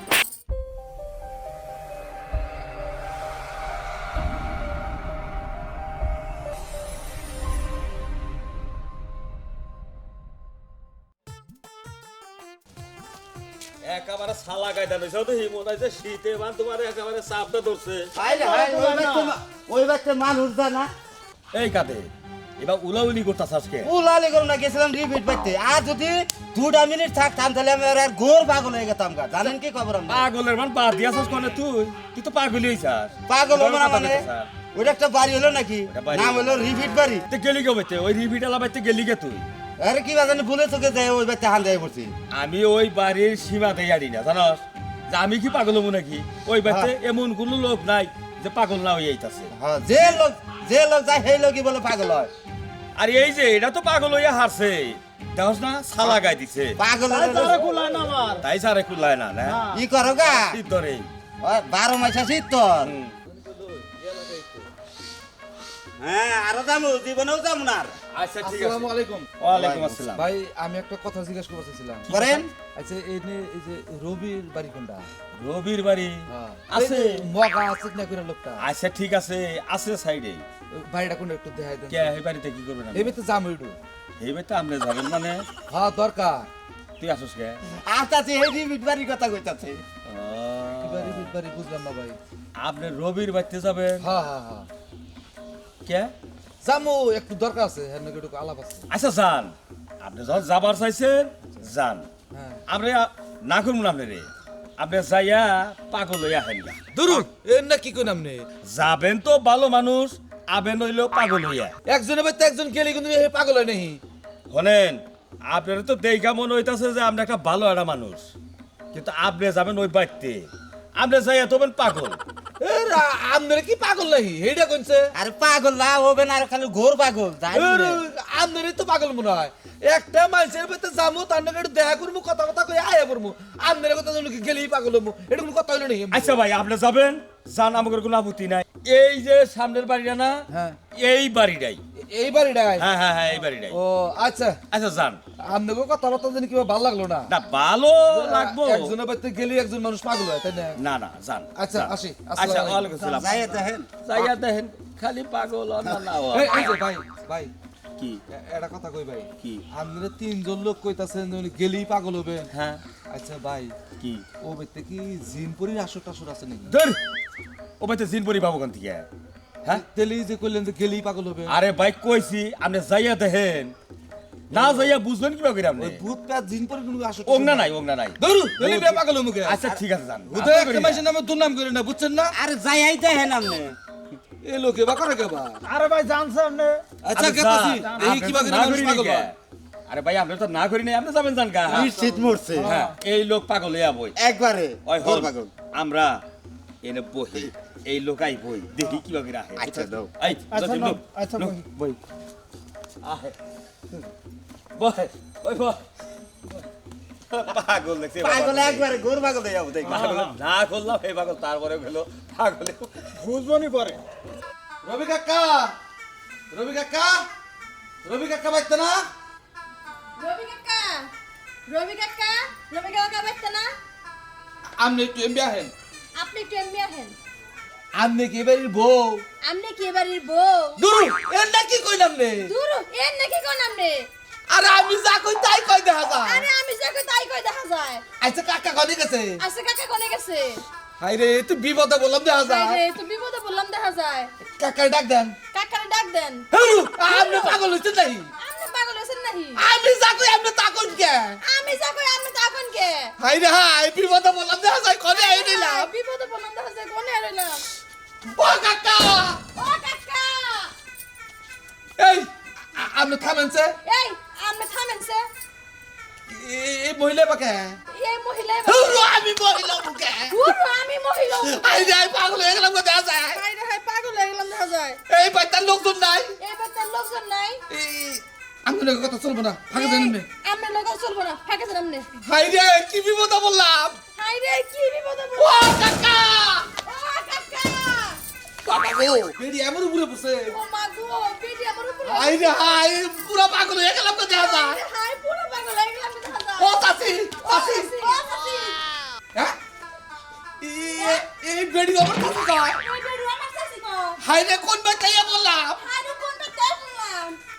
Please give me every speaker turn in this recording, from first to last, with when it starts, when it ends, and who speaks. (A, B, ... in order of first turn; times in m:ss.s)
0:13.8-0:18.2 A
0:18.2-0:20.9 B
0:18.5-0:18.8 C
0:18.8-0:19.3 A
0:21.5-0:23.9 A
0:23.8-0:30.3 B
0:30.1-0:34.5 A
0:33.3-0:37.2 B
0:35.9-0:39.4 A
0:39.8-0:42.1 B
0:42.3-0:49.5 A
0:46.6-0:46.9 B
0:49.5-0:52.3 B
0:53.0-0:56.8 A
0:56.8-0:57.6 B
0:57.1-0:58.4 C
0:58.4-1:01.1 A
0:59.4-0:59.8 C
0:59.6-1:00.6 B
1:01.4-1:02.9 B
1:02.8-1:03.2 A
1:03.3-1:04.7 D
1:06.0-1:08.0 B
1:08.1-1:10.3 A
1:08.4-1:09.3 D
1:09.5-1:10.0 B
1:10.1-1:15.1 D
1:12.1-1:12.5 B
1:12.1-1:12.4 A
1:15.3-1:17.3 A
1:16.3-1:18.6 D
1:18.6-1:20.4 A
1:20.7-1:22.1 D
1:21.9-1:23.2 A
1:22.9-1:23.8 D
1:24.2-1:25.5 A
1:25.7-1:26.5 D
1:27.0-1:27.6 A
1:27.7-1:29.8 B
1:30.0-1:31.3 A
1:30.8-1:32.2 D
1:32.6-1:34.1 A
1:34.0-1:34.7 D
1:35.8-1:36.1 A
1:36.6-1:38.8 D
1:38.9-1:42.1 A
1:42.3-1:42.6 D
1:42.7-1:47.2 A
1:46.9-1:48.4 D
1:48.6-1:51.7 A
1:51.9-1:54.0 D
1:54.5-1:58.2 A
1:58.9-2:02.2 A
2:02.6-2:05.1 D
2:05.1-2:08.0 B
2:07.5-2:16.4 D
2:16.1-2:21.8 A
2:20.5-2:20.8 D
2:22.0-2:22.8 D
2:22.8-2:23.8 A
2:23.7-2:24.6 D
2:24.7-2:25.2 A
2:25.4-2:27.3 D
2:27.3-2:28.9 A
2:28.1-2:30.8 D
2:30.8-2:36.8 A
2:31.5-2:33.0 D
2:33.1-2:33.9 B
2:35.8-2:37.5 D
2:38.3-2:42.5 D
2:42.5-2:42.8 A
2:43.1-2:43.7 D
2:44.0-2:44.2 A
2:44.4-2:46.7 D
2:46.7-2:47.0 A
2:47.8-2:49.1 A
2:49.8-2:51.5 D
2:51.5-2:53.7 A
2:54.5-2:56.0 A
2:54.5-2:54.9 D
2:55.8-2:59.6 D
2:57.2-3:01.0 A
3:00.3-3:02.3 D
3:02.3-3:03.8 B
3:04.4-3:05.6 D
3:05.6-3:06.8 C
3:07.0-3:09.3 D
3:07.1-3:09.4 A
3:07.8-3:08.5 C
3:09.9-3:11.9 A
3:11.7-3:12.7 B
3:11.9-3:12.9 C
3:12.6-3:14.2 A
3:14.2-3:15.5 B
3:14.8-3:16.2 A
3:16.8-3:22.0 A
3:19.6-3:20.1 B
3:20.5-3:21.6 C
3:23.0-3:23.3 A
3:24.8-3:25.8 A
3:27.3-3:29.1 A
3:28.2-3:30.3 B
3:29.8-3:33.1 A
3:33.2-3:34.0 C
3:34.8-3:35.8 D
3:36.5-3:37.3 D
3:38.0-3:39.1 D
3:40.2-3:41.1 E
3:41.7-3:43.7 E
3:44.8-3:45.7 D
3:46.1-3:47.2 E
3:47.9-3:49.2 D
3:49.4-3:50.8 E
3:50.8-3:52.5 D
3:52.4-3:54.1 E
3:54.5-3:56.5 D
3:55.5-3:58.0 E
3:58.2-3:59.4 D
3:59.4-4:00.6 E
4:01.0-4:02.8 D
4:02.4-4:04.3 E
4:04.5-4:05.4 D
4:05.5-4:07.7 E
4:06.5-4:08.3 D
4:08.4-4:09.7 E
4:09.6-4:11.4 D
4:11.4-4:13.1 E
4:13.2-4:15.9 D
4:15.1-4:17.6 E
4:18.2-4:19.4 D
4:19.5-4:20.7 E
4:22.0-4:23.8 D
4:23.8-4:25.3 E
4:26.3-4:27.8 D
4:27.9-4:29.2 E
4:28.6-4:30.4 D
4:30.3-4:32.1 E
4:31.4-4:33.4 D
4:33.3-4:35.0 E
4:35.1-4:36.4 D
4:36.4-4:37.6 E
4:37.7-4:40.2 D
4:39.7-4:42.1 E
4:42.2-4:44.0 D
4:44.2-4:46.0 E
4:45.4-4:46.7 D
4:46.8-4:48.2 E
4:48.6-4:50.5 D
4:50.5-4:52.8 E
4:52.0-4:54.8 D
4:54.3-4:58.8 E
4:56.6-4:58.0 D
5:00.6-5:02.8 D
5:00.9-5:01.2 E
5:02.8-5:04.2 E
5:04.2-5:05.8 D
5:05.8-5:07.4 E